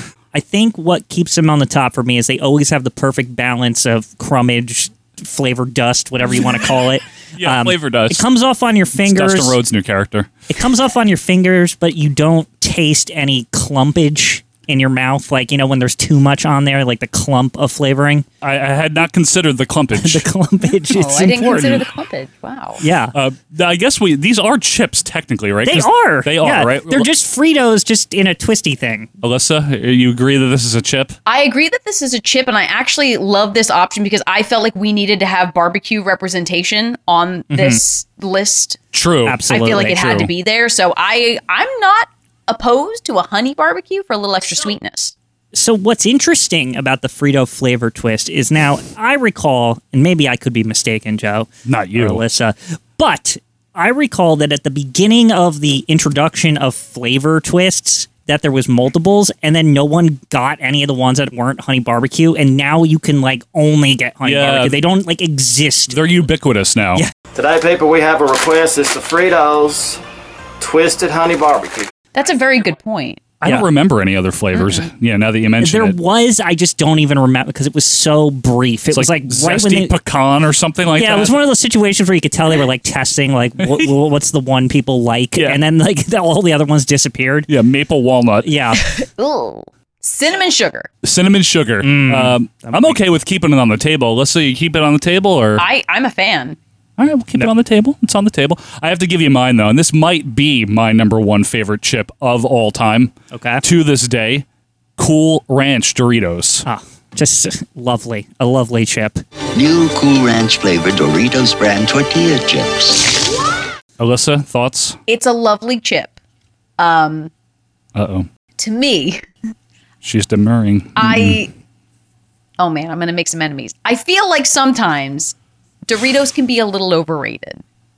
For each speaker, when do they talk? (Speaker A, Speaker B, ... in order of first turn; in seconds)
Speaker A: 0.3-9.6, 10.5-18.3, 20.0-21.8, 22.8-23.1, 25.7-29.1, 37.5-37.8, 39.3-40.2, 45.5-66.0, 75.6-79.9, 81.0-87.5, 88.5-88.8, 91.8-93.0, 103.3-103.6, 106.7-109.2
Speaker B: 7.4-8.2, 9.0-10.3, 18.4-20.3, 23.1-27.1, 29.2-31.2, 38.9-40.3, 51.7-52.2, 64.2-64.8, 65.9-67.0, 73.4-76.0, 78.9-81.4, 83.6-83.9, 87.5-88.5, 91.0-95.7, 97.0-104.5, 105.0-106.7, 114.0-115.0, 118.0-118.3, 120.0-121.5
Speaker C: 20.9-22.8, 31.3-38.8, 39.5-45.1, 72.1-73.2, 74.5-74.9, 88.8-90.9, 95.6-96.6, 115.1-116.2, 116.8-117.3, 118.6-119.2, 121.0-121.5, 122.6-125.3, 125.9-127.6
Speaker D: 67.3-70.0, 70.6-71.9
Speaker E: 109.5-113.2